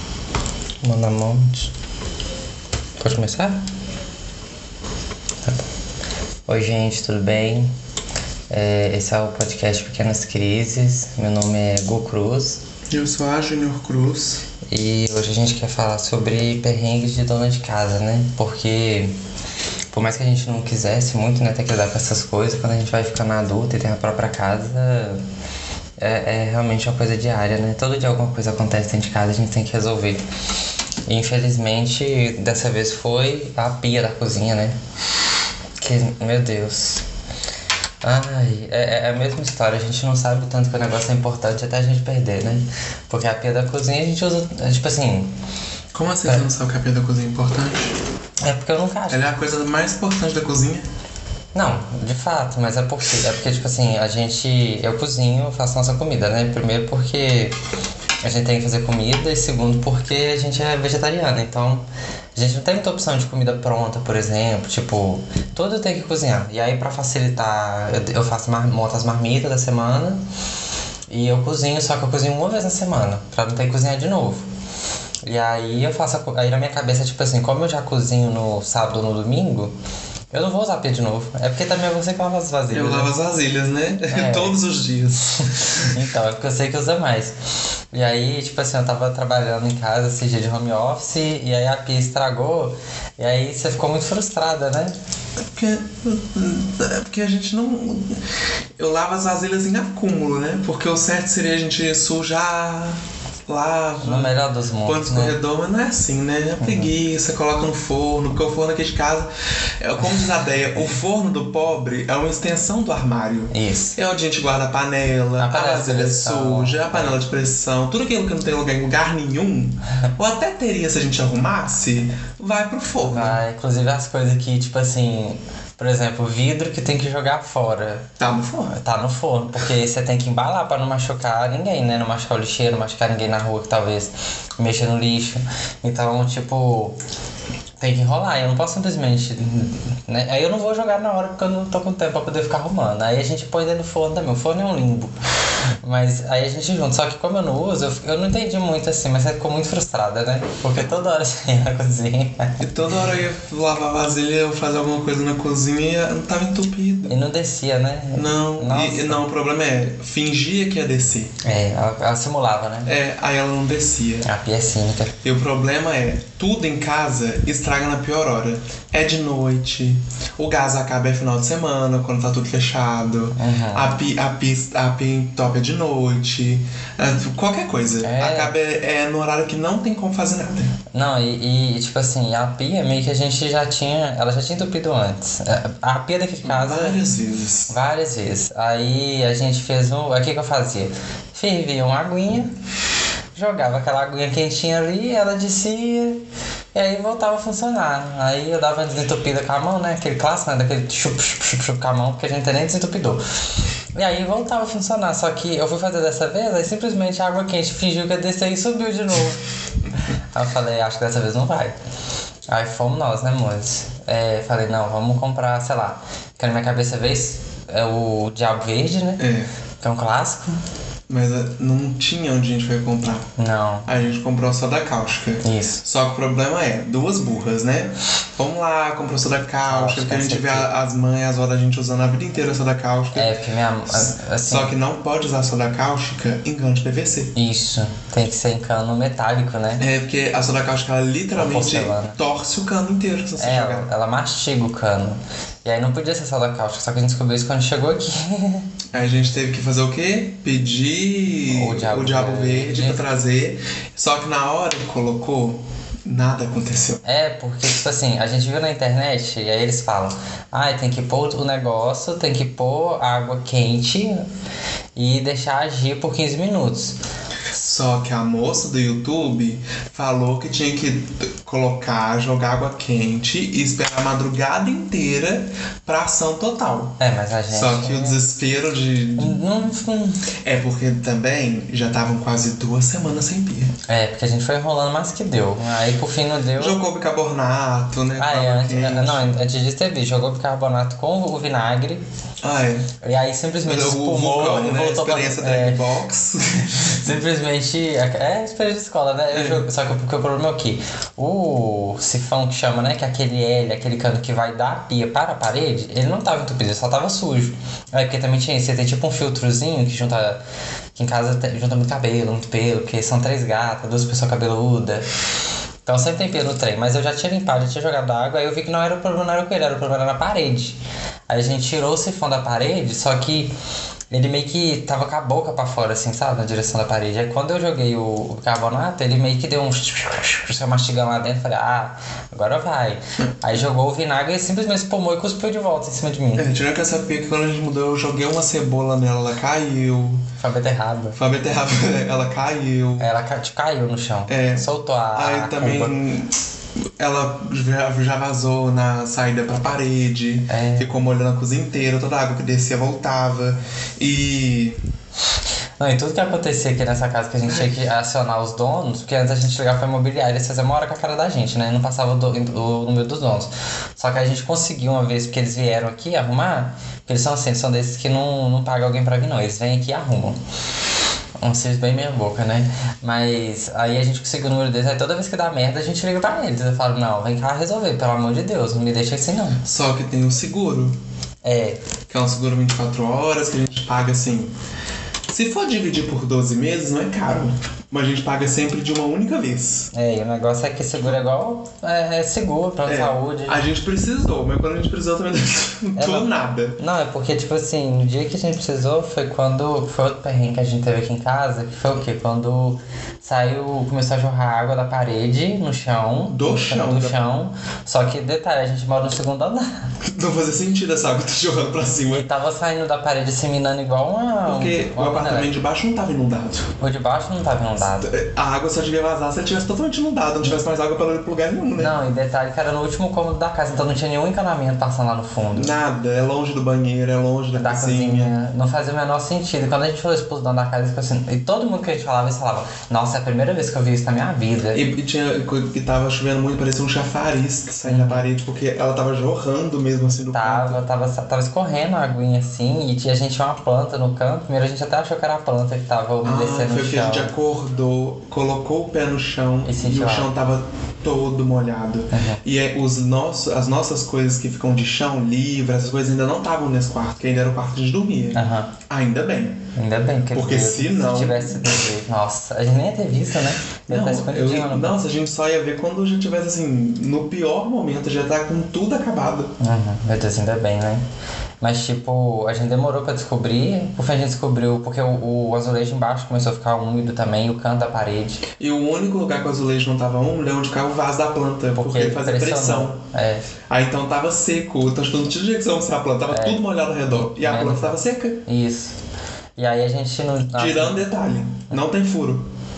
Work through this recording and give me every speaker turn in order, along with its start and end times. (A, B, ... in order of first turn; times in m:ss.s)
0:00.8-0:01.7 A
0:03.0-0:03.6 A
0:06.5-0:07.7 A
0:08.5-0:12.6 A
0:12.9-0:14.4 B
0:14.7-0:19.2 A
0:19.9-0:25.2 A
0:26.0-0:30.2 A
0:31.1-0:34.7 A
0:35.8-0:37.0 A
0:38.0-0:45.3 A
0:45.9-0:48.0 B
0:48.4-0:49.3 A
0:49.1-0:50.8 B
0:51.5-0:57.6 A
0:58.2-1:01.8 A
1:02.4-1:10.2 A
1:11.1-1:14.5 A
1:15.2-1:19.7 A
1:20.3-1:23.1 A
1:22.7-1:26.0 B
1:24.1-1:24.6 A
1:25.5-1:27.4 A
1:27.9-1:35.0 A
1:35.5-1:38.2 B
1:38.8-1:49.3 B
1:44.0-1:45.4 A
1:46.6-1:46.9 A
1:49.8-2:03.4 B
1:53.5-1:54.0 A
1:55.4-1:57.2 A
2:03.0-2:08.1 A
2:08.2-2:08.8 B
2:08.7-2:17.0 A
2:17.8-2:25.1 A
2:25.8-2:32.6 A
2:32.6-2:37.2 B
2:37.1-2:39.2 A
2:38.1-2:41.3 B
2:41.4-2:42.9 A
2:42.8-2:44.3 B
2:44.2-2:45.2 A
2:45.2-3:00.8 B
2:53.3-2:54.0 A
2:58.0-2:58.5 A
3:00.9-3:07.0 A
3:06.4-3:07.7 B
3:07.7-3:12.5 A
3:13.3-3:16.2 A
3:16.7-3:23.2 A
3:23.9-3:29.4 A
3:30.0-3:31.8 A
3:32.5-3:39.3 A
3:39.2-3:39.5 B
3:39.8-3:40.6 A
3:41.1-3:43.3 B
3:43.4-3:43.9 A
3:43.8-3:53.3 B
3:45.4-3:45.8 A
3:49.6-3:50.7 A
3:53.1-3:54.7 A
3:53.9-3:57.3 B
3:57.3-3:59.8 A
3:59.8-4:03.9 B
4:01.4-4:02.2 A
4:03.4-4:08.7 A
4:08.9-4:17.0 B
4:11.5-4:13.0 A
4:17.0-4:24.2 A
4:25.0-4:27.0 A
4:27.5-4:39.4 B
4:37.0-4:38.2 A
4:39.2-4:40.3 A
4:40.3-4:43.7 B
4:43.9-4:46.8 A
4:46.6-4:49.4 B
4:48.2-4:52.0 A
4:52.4-4:52.9 B
4:53.0-4:55.9 A
4:53.6-4:57.2 B
4:56.8-5:10.4 A
4:59.3-4:59.6 B
5:11.0-5:15.0 A
5:15.8-5:23.5 A
5:24.1-5:36.5 A
5:36.4-5:40.2 B
5:40.4-5:41.2 A
5:41.2-5:43.1 B
5:43.0-5:45.9 A
5:44.3-5:46.4 B
5:47.0-5:54.8 B
5:50.5-5:50.9 A
5:55.8-6:10.4 A
5:57.4-5:57.7 B
6:11.4-6:19.6 A
6:19.6-6:21.0 B
6:21.4-6:21.8 A
6:22.1-6:24.5 B
6:25.3-6:29.9 B
6:29.9-6:33.7 A
6:32.8-6:36.8 B
6:36.0-6:49.9 A
6:46.3-6:47.2 B
6:50.1-6:52.3 B
6:52.1-6:55.6 A
6:54.4-6:56.7 B
6:56.8-6:58.1 A
6:57.8-7:02.0 B
7:01.8-7:05.7 A
7:05.5-7:08.3 B
7:07.5-7:14.8 A
7:14.7-7:20.8 B
7:17.8-7:18.2 A
7:20.3-7:27.3 A
7:26.2-7:39.6 B
7:29.6-7:30.3 A
7:32.1-7:32.4 A
7:38.3-7:38.7 A
7:39.8-7:45.0 A
7:40.3-7:41.8 B
7:43.9-7:49.5 B
7:49.6-7:51.0 A
7:51.6-7:58.4 A
7:58.6-8:03.0 B
8:01.7-8:03.5 A
8:03.7-8:08.4 B
8:06.3-8:09.0 A
8:09.6-8:11.0 A
8:10.5-8:12.5 B